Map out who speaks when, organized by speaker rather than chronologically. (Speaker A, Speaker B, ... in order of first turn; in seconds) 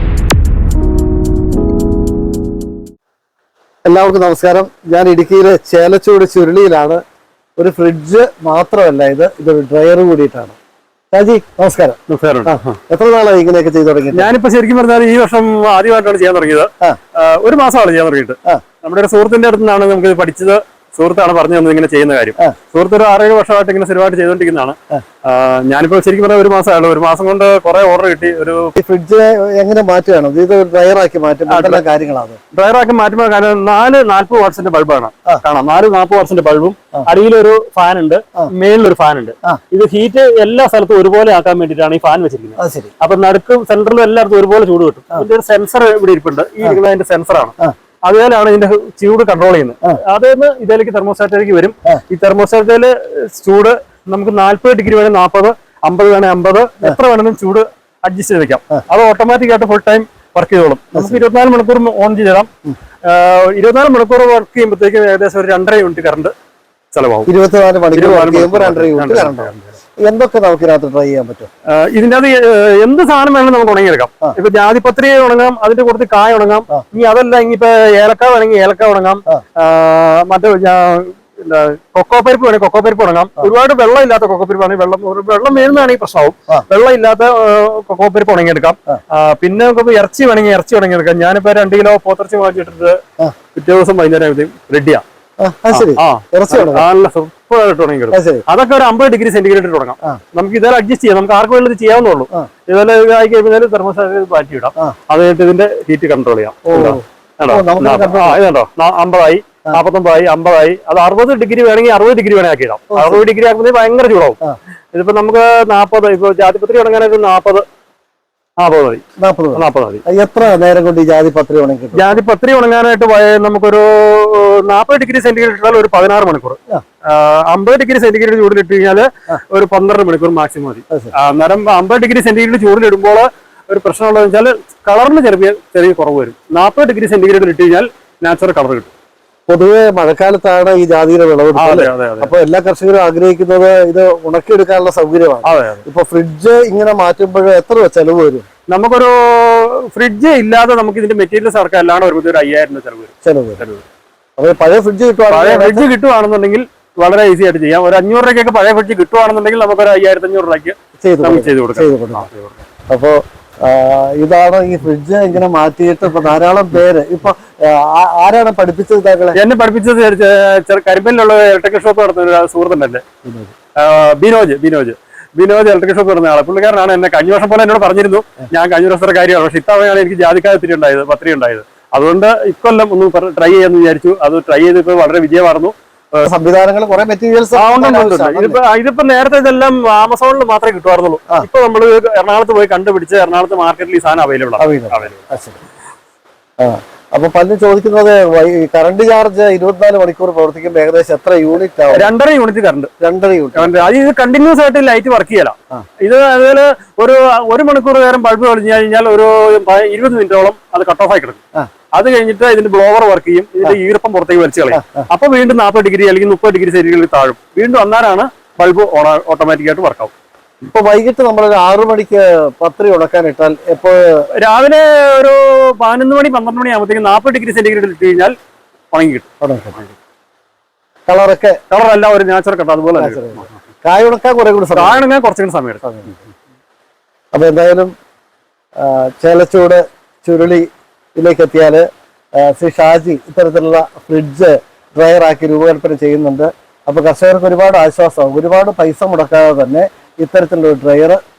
Speaker A: 3.9-7.0, 7.6-10.6, 11.1-14.3, 28.8-32.4, 42.6-42.9, 67.3-69.5, 70.0-71.5, 95.4-96.8, 98.1-98.5, 106.7-108.4, 112.9-113.2, 119.2-122.2, 139.5-148.4, 153.2-153.6, 154.4-155.9, 161.0-162.3, 162.9-169.4, 173.2-173.5, 186.2-188.6, 194.6-195.6, 196.6-202.1, 203.0-203.9, 214.7-215.1, 220.6-224.3, 229.4-229.8, 231.1-231.6, 233.0-235.0, 235.8-236.2, 237.3-237.9, 238.8-251.2
Speaker B: 12.1-12.8, 14.1-28.7, 31.5-31.8, 32.5-47.5, 48.0-62.5, 63.0-66.3, 66.9-67.3, 67.9-69.7, 71.7-93.0, 93.5-95.0, 95.7-114.4, 114.9-117.7, 118.6-119.0, 119.5-120.0, 121.9-138.9, 141.6-142.3, 145.4-145.8, 148.7-153.8, 155.3-162.6, 169.3-173.0, 173.8-186.3, 187.5-195.2, 201.9-202.9, 203.6-211.4, 211.9-220.1, 224.3-228.3, 228.9-229.3, 231.7-233.5, 234.8-235.8